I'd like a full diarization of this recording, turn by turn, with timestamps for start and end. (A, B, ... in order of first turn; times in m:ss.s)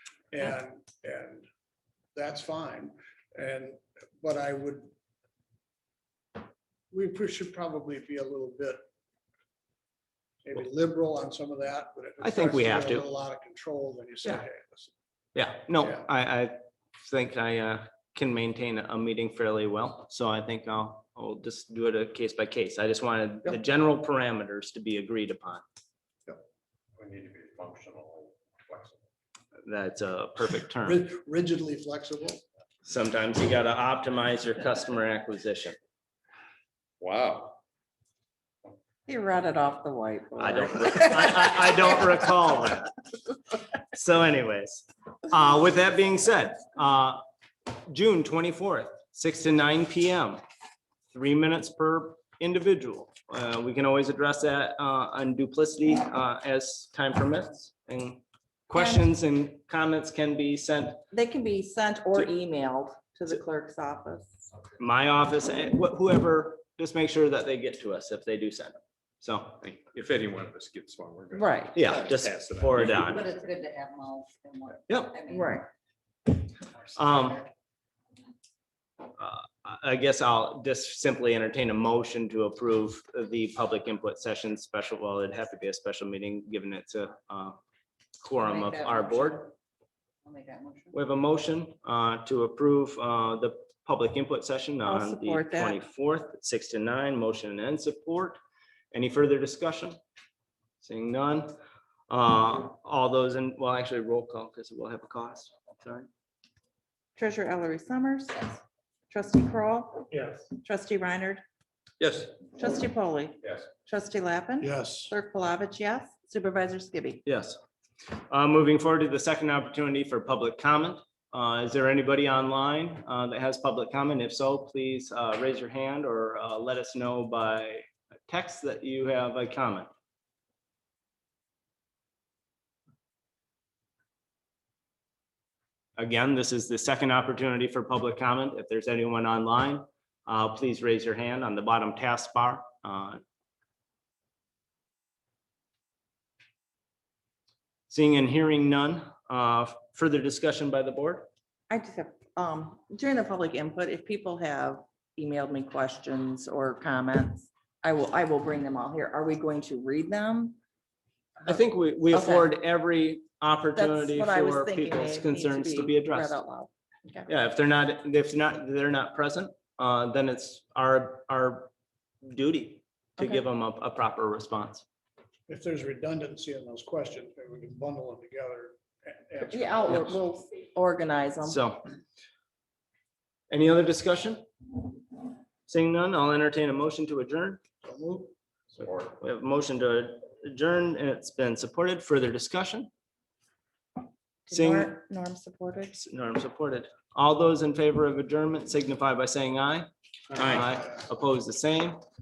0:00.3-0:01.4 A
0:02.1-0:04.9 A
0:06.9-0:08.8 A
0:10.4-0:14.9 A
0:12.2-0:13.0 B
0:15.3-0:16.5 B
0:17.0-0:25.6 B
0:27.0-0:29.0 C
0:29.6-0:31.1 B
0:30.8-0:32.4 A
0:32.8-0:35.8 B
0:37.0-0:37.6 C
0:39.1-0:41.7 D
0:40.4-0:43.0 B
0:43.9-0:47.2 B
0:47.7-0:50.4 B
0:51.1-1:01.0 B
0:58.8-0:59.0 D
1:01.1-1:04.5 D
1:04.8-1:09.6 B
1:09.6-1:13.2 C
1:11.4-1:11.9 D
1:11.7-1:13.3 B
1:13.0-1:15.5 E
1:14.9-1:15.2 B
1:15.3-1:15.7 D
1:16.9-1:17.4 B
1:19.2-1:27.6 B
1:28.2-1:29.5 B
1:28.4-1:29.5 E
1:30.2-1:30.9 E
1:30.9-1:38.4 B
1:34.8-1:35.8 D
1:38.9-1:40.0 B
1:40.8-1:41.5 B
1:42.1-1:46.1 B
1:47.2-1:50.1 D
1:50.6-1:51.4 D
1:52.0-1:52.4 C
1:52.6-1:57.2 D
1:54.6-1:55.1 A
1:57.2-1:57.6 B
1:58.3-2:09.9 B
2:16.0-2:23.2 B
2:27.9-2:31.3 B
2:31.7-2:40.6 D
2:41.4-2:46.4 B
2:42.1-2:42.5 D
2:43.8-2:47.3 D
2:47.3-2:51.7 B
2:52.2-2:54.8 B
2:55.5-3:00.2 A
2:59.5-3:01.6 D
3:01.4-3:01.8 B
3:03.5-3:04.4 B
3:05.7-3:07.6 B
3:07.8-3:08.3 A
3:08.7-3:09.1 C
3:09.1-3:12.9 B
3:14.5-3:15.9 D
3:14.5-3:15.0 B
3:15.9-3:22.0 B